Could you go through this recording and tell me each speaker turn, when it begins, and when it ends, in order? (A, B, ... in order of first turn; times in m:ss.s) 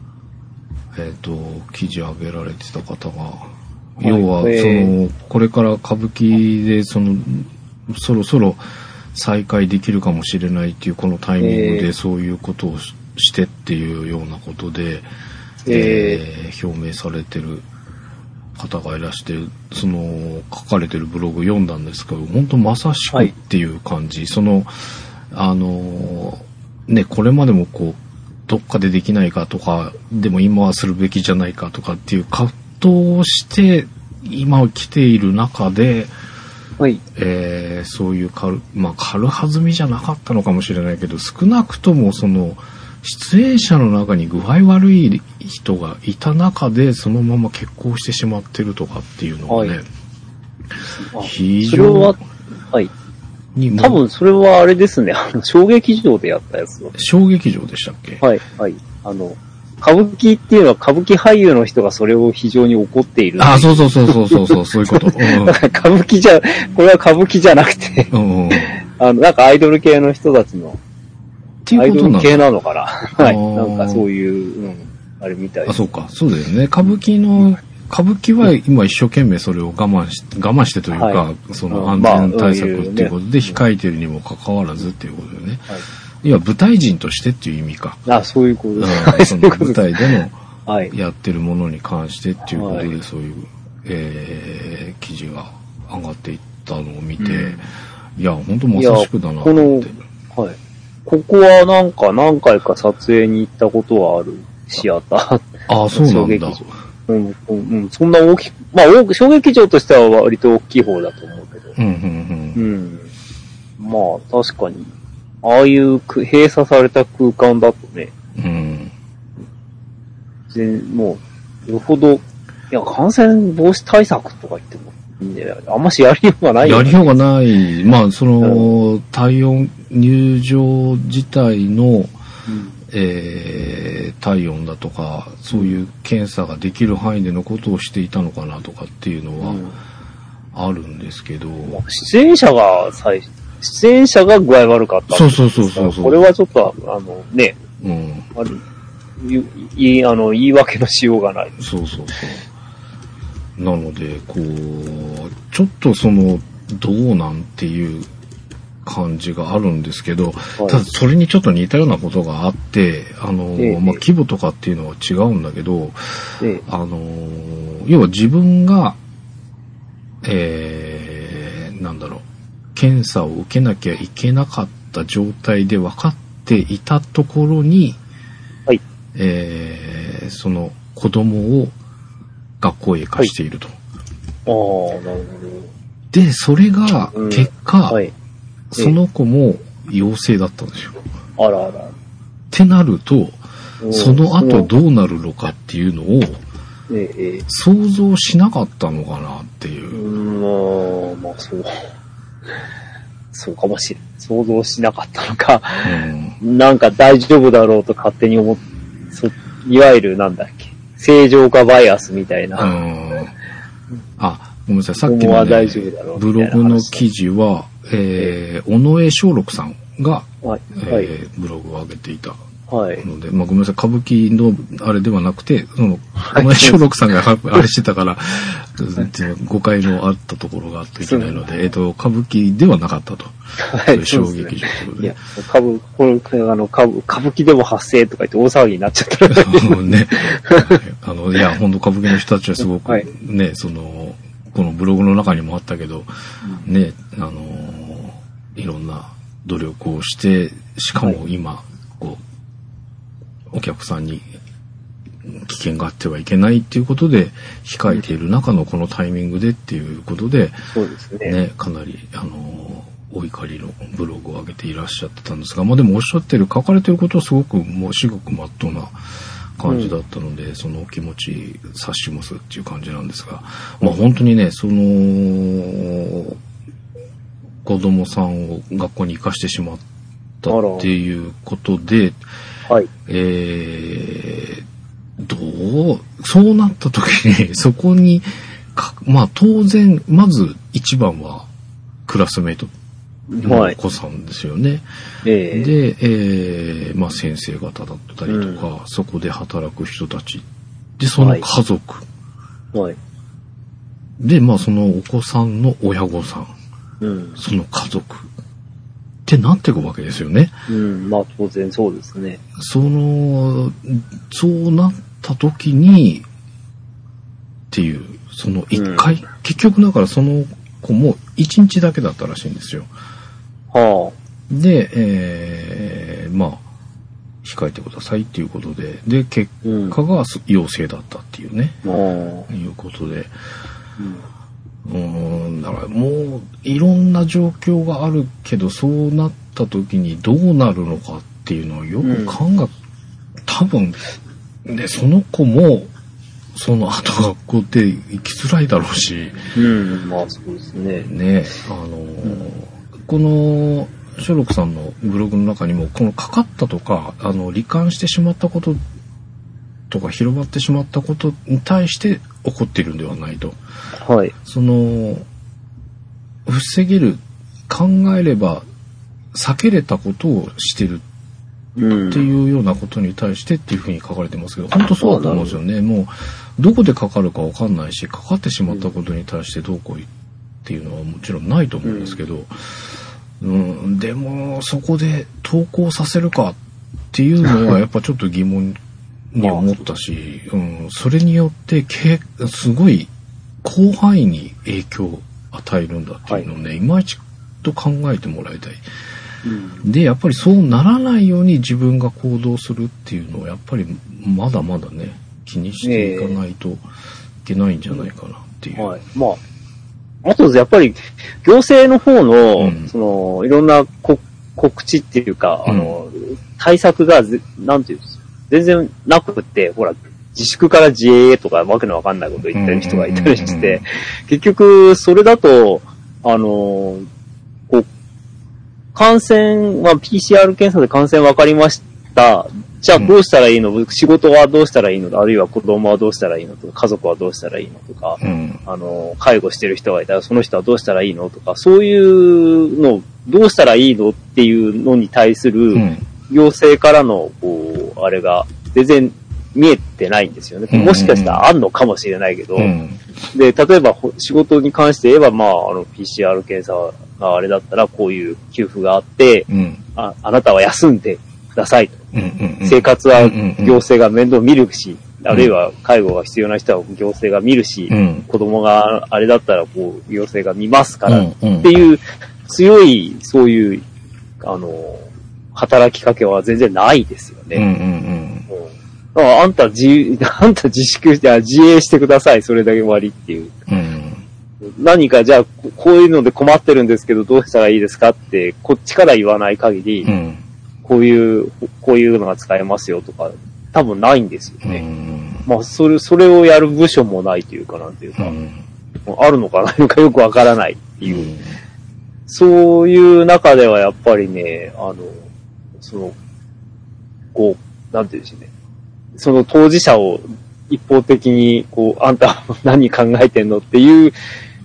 0:00.9-0:08.6 A
0:04.0-0:04.9 B
0:09.1-0:15.1 A
0:11.4-0:11.9 B
0:15.6-0:16.2 B
0:15.7-0:17.6 A
0:18.6-0:36.1 A
0:37.1-0:49.8 A
0:49.5-0:49.8 B
0:50.9-0:52.2 B
0:51.2-0:52.2 A
0:53.5-0:54.0 A
0:53.8-0:56.9 B
0:56.9-0:58.2 A
0:58.2-1:08.1 B
1:03.4-1:05.6 A
1:08.1-1:08.8 A
1:08.7-1:10.8 B
1:11.6-1:12.4 A
1:11.7-1:15.8 B
1:13.2-1:14.0 A
1:15.6-1:25.7 A
1:20.9-1:23.5 B
1:26.2-1:28.0 A
1:28.0-1:30.1 B
1:28.8-1:30.4 A
1:30.7-1:30.9 B
1:30.9-1:40.0 A
1:32.5-1:32.9 B
1:37.2-1:37.6 B
1:38.7-1:51.7 B
1:45.7-1:46.7 A
1:51.8-1:52.6 A
1:52.5-1:53.1 B
1:53.8-1:58.1 B
1:58.4-1:58.9 A
2:00.5-2:07.2 B
2:06.6-2:12.1 A
2:08.4-2:08.7 B
2:12.5-2:12.7 B
2:12.9-2:19.6 A
2:19.4-2:19.8 B
2:20.5-2:21.8 A
2:21.7-2:27.6 B
2:25.1-2:26.2 A
2:27.8-2:28.3 A
2:29.2-2:31.6 B
2:31.6-2:32.4 A
2:33.6-2:38.1 A
2:38.8-2:49.0 A
2:43.6-2:44.0 B
2:50.2-2:58.0 A
2:59.1-3:01.7 A
3:02.6-3:03.8 A
3:04.4-3:05.7 B
3:06.1-3:08.0 A
3:07.1-3:08.1 B
3:08.7-3:11.0 A
3:11.4-3:11.9 B
3:12.5-3:13.4 A
3:13.8-3:14.7 B
3:13.9-3:16.4 A
3:16.9-3:17.4 B
3:17.5-3:20.0 A
3:19.9-3:21.8 B
3:23.3-3:32.8 B
3:25.8-3:26.4 A
3:32.6-3:33.3 A
3:34.2-3:42.4 A
3:35.0-3:37.0 B
3:40.4-3:41.1 B
3:42.7-3:43.0 B
3:43.0-3:55.2 A
3:46.2-3:46.8 B
3:51.0-3:51.4 B
3:53.6-4:00.8 B
3:59.3-4:06.1 A
4:06.6-4:12.2 A
4:13.5-4:14.3 A
4:15.2-4:20.6 A
4:20.7-4:21.4 B
4:21.2-4:29.0 A
4:29.6-4:36.4 A
4:29.7-4:29.9 B
4:37.6-4:39.8 A
4:40.4-4:42.2 A
4:40.5-4:40.9 B
4:43.0-4:44.6 A
4:45.2-4:51.5 A
4:52.0-4:52.7 A
4:53.3-4:53.8 B
4:53.4-4:54.8 A
4:55.2-4:55.7 B
4:55.5-5:00.4 A
4:58.3-4:58.6 B
5:01.0-5:02.0 A
5:01.2-5:01.4 B
5:04.2-5:06.5 A
5:07.0-5:07.4 B
5:07.4-5:08.3 A
5:09.2-5:10.5 A
5:10.7-5:12.4 B
5:12.6-5:16.2 A
5:17.7-5:22.9 A
5:18.7-5:19.0 B
5:23.7-5:24.1 B
5:24.5-5:26.6 A
5:27.4-5:31.8 A
5:29.6-5:30.0 B
5:31.8-5:32.5 B
5:32.5-5:33.3 A
5:34.0-5:34.2 B
5:34.8-5:42.7 A
5:42.0-5:42.4 B
5:43.4-5:44.0 A
5:44.6-5:45.9 A
5:46.5-5:49.5 A
5:49.5-5:51.1 B
5:51.0-5:58.8 A
5:59.9-6:03.6 A
6:04.0-6:04.3 B
6:04.4-6:05.2 A
6:06.4-6:08.6 A
6:09.3-6:11.0 A
6:11.8-6:12.2 B
6:12.1-6:20.1 A
6:15.0-6:15.6 B
6:20.6-6:26.6 A
6:21.8-6:22.2 B
6:27.1-6:28.8 A
6:29.3-6:33.1 A
6:29.4-6:29.7 B
6:33.6-6:38.8 A
6:39.4-6:39.8 B
6:39.8-6:46.8 A
6:45.8-6:46.4 B
6:47.4-6:48.9 A
6:48.8-6:49.4 B
6:50.2-7:07.1 B
6:52.6-6:52.9 A
6:55.6-6:56.0 A
7:02.5-7:03.8 A
7:08.9-7:32.7 B
7:18.2-7:18.6 A
7:25.7-7:26.0 A
7:30.7-7:31.4 A
7:32.6-7:33.0 A
7:33.3-7:42.0 B
7:39.5-7:39.8 A
7:42.1-7:43.8 A
7:42.6-7:53.8 B
7:47.9-7:48.2 A
7:51.1-7:51.7 A
7:54.4-7:57.6 B
7:57.5-7:58.5 A
7:58.5-8:03.5 B
8:03.7-8:04.2 A
8:04.6-8:10.1 B
8:10.0-8:10.4 A
8:10.8-8:14.8 B
8:14.6-8:15.4 A
8:15.4-8:18.3 B
8:18.2-8:18.6 A
8:19.1-8:21.3 B
8:21.0-8:21.5 A
8:22.3-8:25.2 B
8:25.8-8:26.1 B
8:27.3-8:28.5 B
8:29.2-8:34.1 B